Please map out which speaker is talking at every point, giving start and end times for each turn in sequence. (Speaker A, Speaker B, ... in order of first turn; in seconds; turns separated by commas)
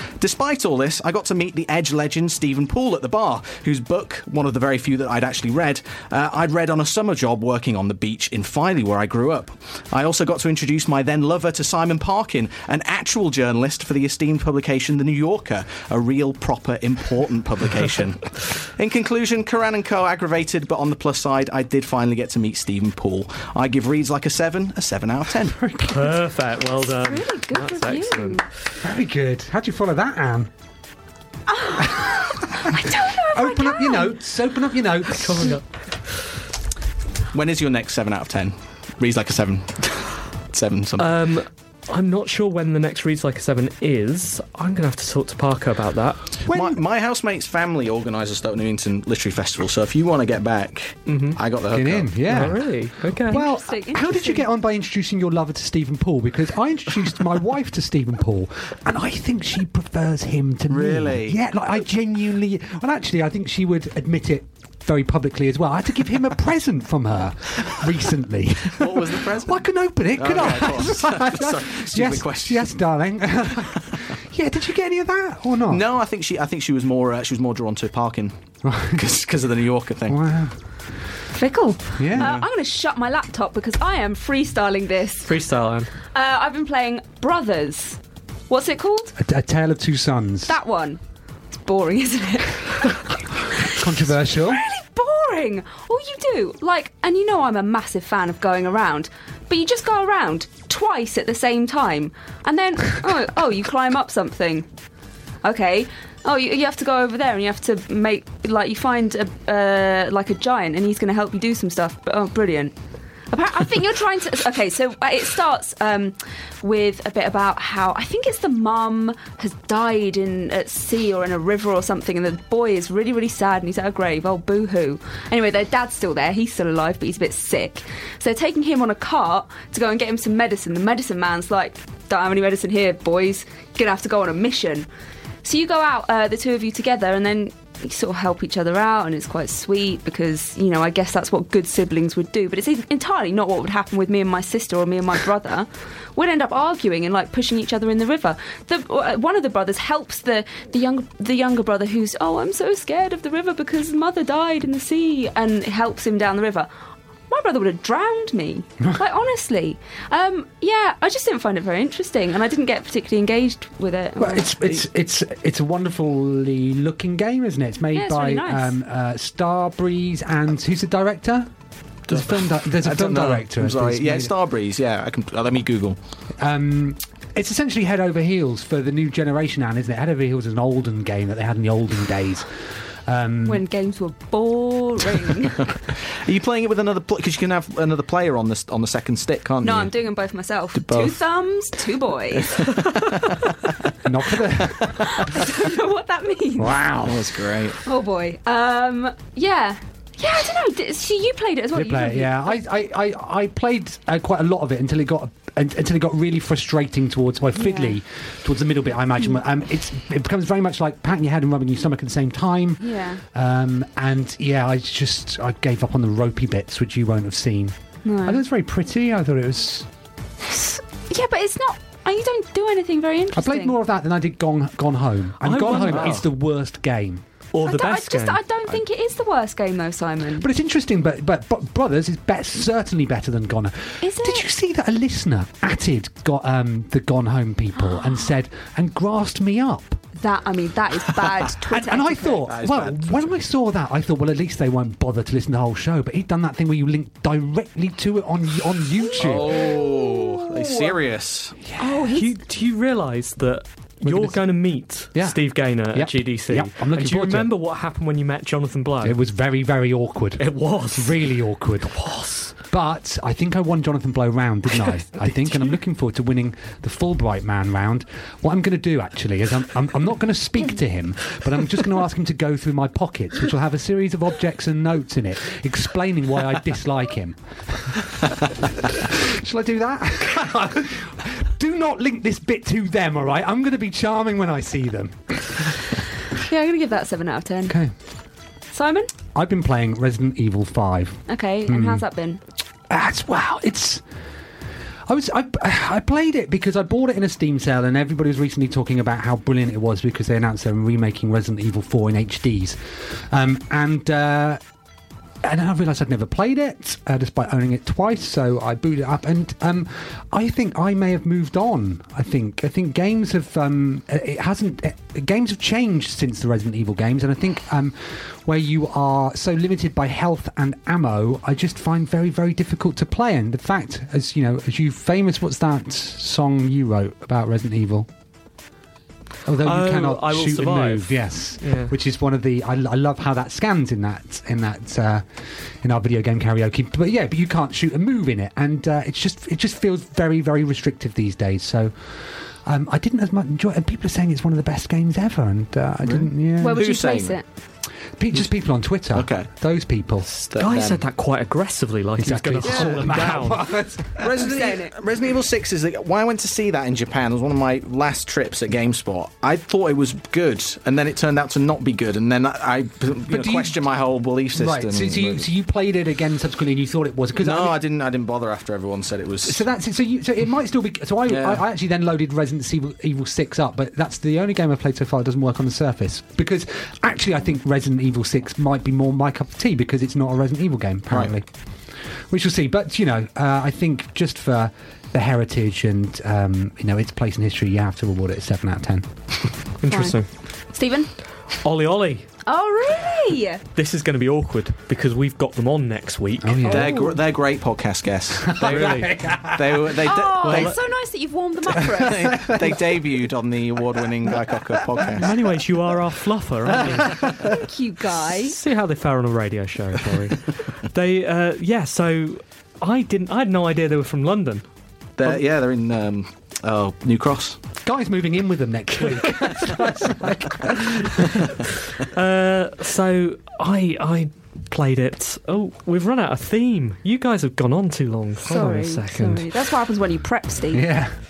Speaker A: 0.2-25.6, Speaker B: 25.6-26.2, Speaker C: 25.8-28.4, Speaker D: 26.8-28.4, Speaker B: 28.8-30.5, Speaker D: 31.5-34.1, Speaker B: 31.8-32.7, Speaker B: 33.3-35.6, Speaker C: 35.1-35.7, Speaker A: 37.3-41.1, Speaker C: 41.0-46.2, Speaker B: 46.5-46.8, Speaker A: 46.5-52.2, Speaker C: 51.1-51.4, Speaker B: 51.7-52.7, Speaker C: 52.3-53.4, Speaker B: 53.3-75.8, Speaker D: 53.3-54.5, Speaker A: 60.7-61.4, Speaker A: 68.8-72.8, Speaker A: 75.7-80.2, Speaker B: 78.6-79.0, Speaker B: 80.1-80.6, Speaker D: 81.3-85.3, Speaker B: 82.0-82.5, Speaker C: 85.3-85.9, Speaker D: 86.1-89.1, Speaker B: 89.2-90.5, Speaker D: 90.5-91.0, Speaker D: 91.6-93.0, Speaker B: 93.6-94.6, Speaker D: 94.3-104.7, Speaker D: 105.4-112.7, Speaker D: 113.3-134.9, Speaker D: 135.4-156.7, Speaker D: 157.3-164.5, Speaker B: 164.2-171.5, Speaker D: 167.9-168.8, Speaker B: 172.1-174.3, Speaker A: 172.1-176.0, Speaker B: 176.4-183.6, Speaker D: 183.5-185.6, Speaker A: 186.1-189.9, Speaker D: 189.6-192.6, Speaker A: 190.8-191.2, Speaker A: 192.5-193.3, Speaker B: 194.0-195.0, Speaker A: 194.8-195.3, Speaker D: 195.1-196.8, Speaker B: 196.6-197.6, Speaker A: 197.0-197.8, Speaker D: 197.8-202.6, Speaker B: 201.7-219.9, Speaker D: 207.6-208.0, Speaker D: 212.8-213.2, Speaker D: 218.1-218.4, Speaker D: 220.5-223.8, Speaker B: 223.3-227.2, Speaker C: 225.4-226.2, Speaker A: 225.8-226.2, Speaker C: 227.5-228.4, Speaker D: 227.6-230.5, Speaker B: 230.4-240.0, Speaker D: 234.0-234.5, Speaker D: 240.2-242.5, Speaker B: 241.7-249.8, Speaker A: 242.4-243.3, Speaker D: 249.0-250.8, Speaker A: 249.2-251.6, Speaker B: 251.7-252.0, Speaker D: 251.8-252.3, Speaker C: 252.1-259.2, Speaker B: 254.0-254.4, Speaker B: 255.2-257.5, Speaker B: 259.0-262.0, Speaker C: 260.4-261.2, Speaker C: 262.0-262.5, Speaker B: 262.6-278.1, Speaker B: 278.8-285.8, Speaker D: 286.4-287.8, Speaker B: 287.7-287.9, Speaker D: 288.7-289.1, Speaker B: 289.3-292.1, Speaker D: 291.3-292.4, Speaker B: 292.9-294.0, Speaker B: 295.1-304.6, Speaker B: 305.4-328.1, Speaker B: 329.5-346.9, Speaker C: 329.6-331.9, Speaker A: 346.0-347.4, Speaker D: 346.6-347.4, Speaker B: 348.2-350.3, Speaker A: 349.1-349.5, Speaker A: 350.4-351.0, Speaker C: 350.6-353.6, Speaker B: 352.2-354.4, Speaker A: 352.6-353.2, Speaker A: 354.2-365.5, Speaker D: 354.3-354.9, Speaker B: 363.3-363.8, Speaker B: 364.5-367.8, Speaker A: 367.4-369.6, Speaker B: 369.4-381.5, Speaker A: 371.3-371.6, Speaker B: 382.3-389.1, Speaker C: 389.8-390.3, Speaker D: 389.9-390.2, Speaker D: 390.7-391.1, Speaker C: 391.6-392.3, Speaker D: 392.5-393.6, Speaker C: 393.7-396.9, Speaker B: 396.4-396.9, Speaker A: 396.7-400.8, Speaker D: 396.9-397.1, Speaker B: 398.4-400.0, Speaker C: 398.6-399.2, Speaker D: 400.0-402.5, Speaker C: 400.4-400.7, Speaker B: 401.7-403.0, Speaker A: 401.7-405.3, Speaker B: 404.2-405.3, Speaker C: 405.2-407.5, Speaker B: 406.7-407.5, Speaker D: 407.4-408.6, Speaker C: 408.4-414.6, Speaker A: 415.2-417.6, Speaker B: 417.8-421.6, Speaker C: 422.0-429.5, Speaker D: 428.4-430.8, Speaker B: 430.7-431.1